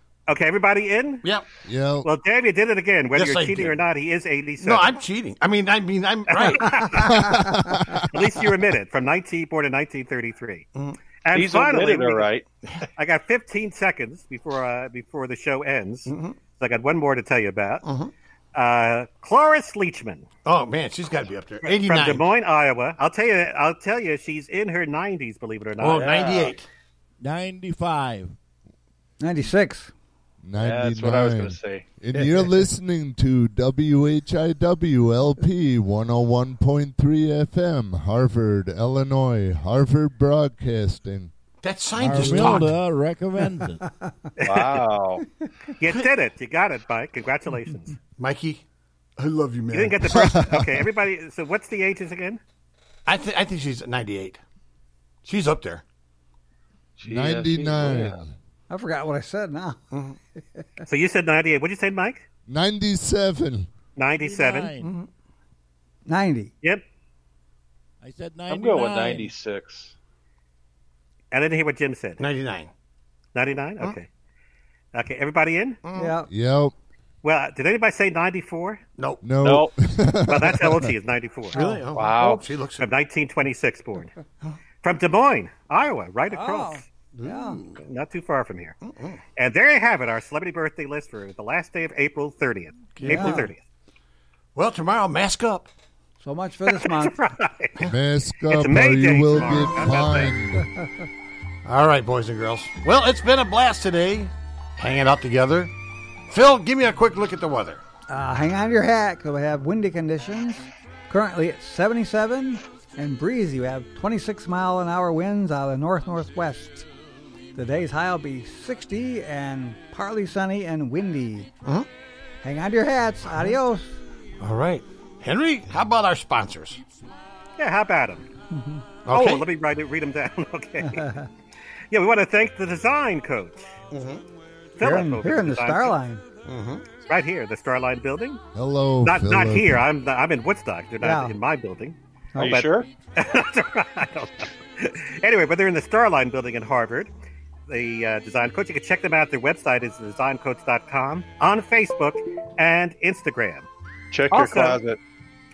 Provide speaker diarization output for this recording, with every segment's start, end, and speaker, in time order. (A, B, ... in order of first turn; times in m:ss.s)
0:00.3-0:01.3 A
0:01.7-0:02.1 B
0:02.0-0:05.0 A
0:03.1-0:03.8 C
0:04.6-0:06.9 C
0:06.3-0:07.1 A
0:06.7-0:08.0 D
0:07.2-0:08.1 B
0:08.1-0:10.7 A
0:11.2-0:12.3 A
0:11.3-0:12.4 E
0:13.0-0:17.8 A
0:16.1-0:16.4 C
0:17.8-0:18.1 C
0:18.6-0:20.3 A
0:20.4-0:22.2 C
0:21.6-0:26.6 A
0:25.8-0:26.7 C
0:25.9-0:26.4 E
0:27.2-0:28.4 F
0:29.2-0:29.9 D
0:30.4-0:41.3 B
0:30.6-0:31.8 E
0:32.1-0:32.5 D
0:41.6-0:42.8 C
0:42.0-0:43.8 F
0:42.3-0:42.6 B
0:44.4-0:44.8 A
0:44.4-0:45.2 E
0:45.8-0:48.0 A
0:48.2-0:48.6 C
0:49.2-0:50.2 C
0:49.7-0:52.4 A
0:50.0-0:50.7 B
0:53.1-0:54.4 C
0:55.2-0:55.8 C
0:57.0-0:58.2 E
0:57.1-0:58.3 B
0:58.7-0:59.8 D
0:59.9-1:00.2 C
1:00.9-1:02.2 A
1:02.5-1:03.7 B
1:04.0-1:04.7 A
1:04.2-1:04.9 F
1:04.8-1:05.1 C
1:06.1-1:06.5 D
1:08.0-1:09.3 F
1:08.5-1:09.9 E
1:11.3-1:12.2 A
1:12.2-1:12.7 C
1:13.4-1:14.1 A
1:14.9-1:15.8 A
1:15.8-1:16.2 C
1:16.0-1:16.3 D
1:16.3-1:16.7 B
1:17.2-1:18.8 A
1:19.0-1:19.2 C
1:19.2-1:20.9 B
1:19.4-1:19.7 E
1:20.3-1:21.7 A
1:21.5-1:22.9 C
1:21.6-1:21.8 D
1:21.9-1:22.4 E
1:22.8-1:24.1 A
1:24.8-1:26.8 A
1:26.3-1:27.6 D
1:27.1-1:27.8 C
1:27.8-1:28.8 A
1:28.8-1:29.2 C
1:29.4-1:33.6 A
1:33.0-1:33.5 C
1:33.0-1:33.5 D
1:34.6-1:35.7 C
1:36.2-1:37.3 D
1:36.7-1:37.8 A
1:37.9-1:40.7 B
1:38.5-1:40.3 A
1:41.6-1:45.7 C
1:46.3-1:47.8 C
1:48.1-1:56.9 D
1:57.6-2:01.5 D
2:02.4-2:04.0 D
2:04.4-2:06.8 C
2:07.6-2:08.3 A
2:08.5-2:08.8 D
2:09.0-2:09.5 C
2:09.1-2:11.0 A
2:10.8-2:11.3 D
2:11.9-2:13.7 A
2:13.9-2:14.2 C
2:14.8-2:16.0 A
2:14.8-2:16.2 D
2:16.5-2:16.9 C
2:17.1-2:18.4 A
2:18.6-2:19.8 B
2:19.0-2:27.1 A
2:21.0-2:21.4 D
2:22.3-2:22.7 D
2:22.4-2:22.9 E
2:27.7-2:33.7 A
2:34.1-2:35.0 E
2:34.3-2:34.8 A